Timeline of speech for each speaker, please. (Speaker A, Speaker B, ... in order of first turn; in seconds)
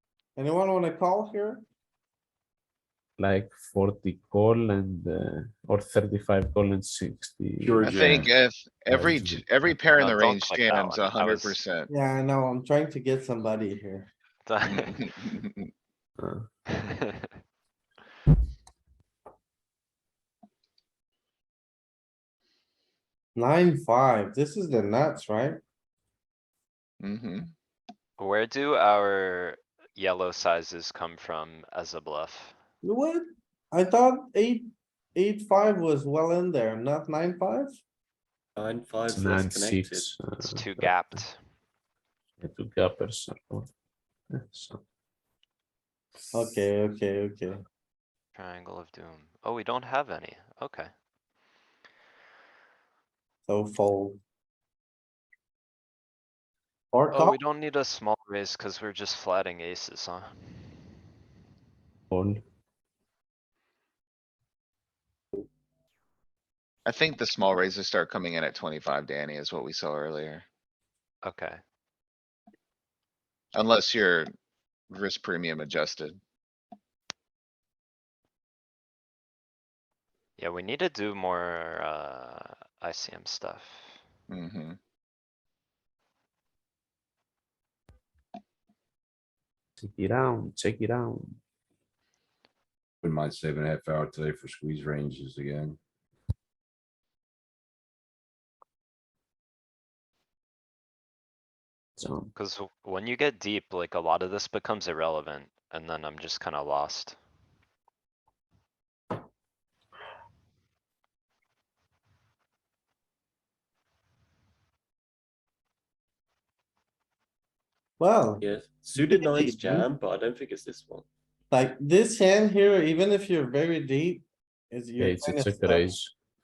Speaker A: 0.3-1.6, 11.9-14.1, 23.4-25.6, 32.8-37.8, 46.3-47.6, 53.5-54.2, 56.9-57.4, 118.0-118.4, 119.0-119.8, 121.5-125.9
Speaker B: 3.2-8.0, 8.9-9.4, 16.2-16.5, 39.1-41.2, 42.4-43.7, 44.3-44.8, 62.1-62.4, 89.8-91.4, 102.0-102.3, 125.0-126.1
Speaker C: 7.6-8.3, 93.0-95.8
Speaker D: 7.8-11.9, 14.8-15.6, 27.0-27.5, 66.8-70.4, 73.5-74.3, 74.9-76.2, 84.3-84.8
Speaker E: 9.9-11.6, 14.4-15.2, 16.8-17.2, 28.2-32.5, 40.4-41.4, 48.4-50.9, 57.1-60.3, 71.2-71.6, 80.4-84.0, 102.3-107.2
Speaker F: 38.6-40.1, 118.4-121.0